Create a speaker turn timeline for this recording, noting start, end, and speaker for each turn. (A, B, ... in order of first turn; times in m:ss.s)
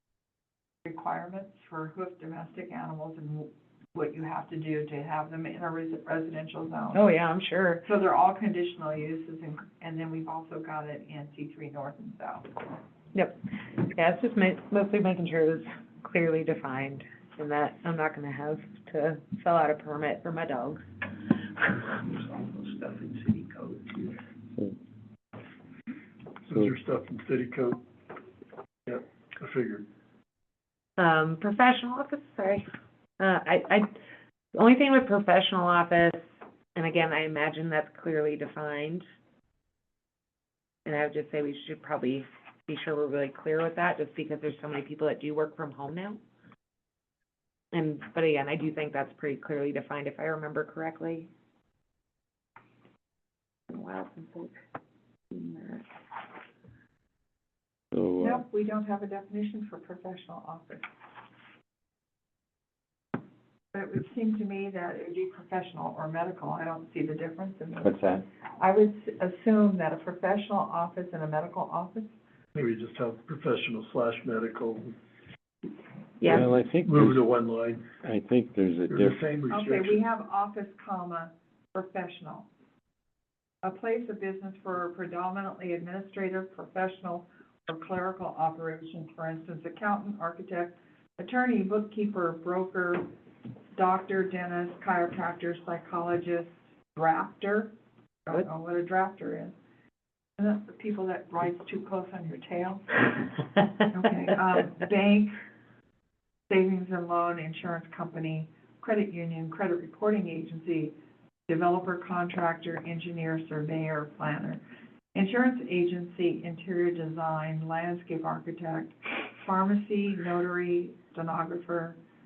0:00.8-0:07.0 A
0:06.9-0:07.8 B
0:07.8-0:12.5 A
0:13.9-0:20.9 B
0:22.0-0:24.1 C
0:26.5-0:27.8 D
0:28.8-0:29.9 D
0:31.0-0:32.6 B
0:33.2-0:33.9 B
0:34.5-0:39.0 B
0:40.8-0:46.2 B
0:47.7-0:51.3 B
0:53.7-0:54.5 B
0:55.3-0:55.8 B
0:57.9-0:58.4 E
0:58.2-1:00.8 A
1:03.7-1:08.0 A
1:07.8-1:08.2 E
1:08.6-1:12.2 A
1:12.5-1:14.9 D
1:16.2-1:16.4 B
1:16.2-1:17.2 E
1:16.8-1:17.9 D
1:18.0-1:19.2 E
1:18.9-1:20.0 D
1:19.5-1:22.5 A
1:23.6-1:33.1 A
1:33.7-1:37.7 A
1:38.2-1:39.5 A
1:40.4-1:43.2 A
1:43.8-1:45.3 A
1:46.5-1:50.9 A
1:51.5-1:54.6 A
1:55.1-2:02.0 A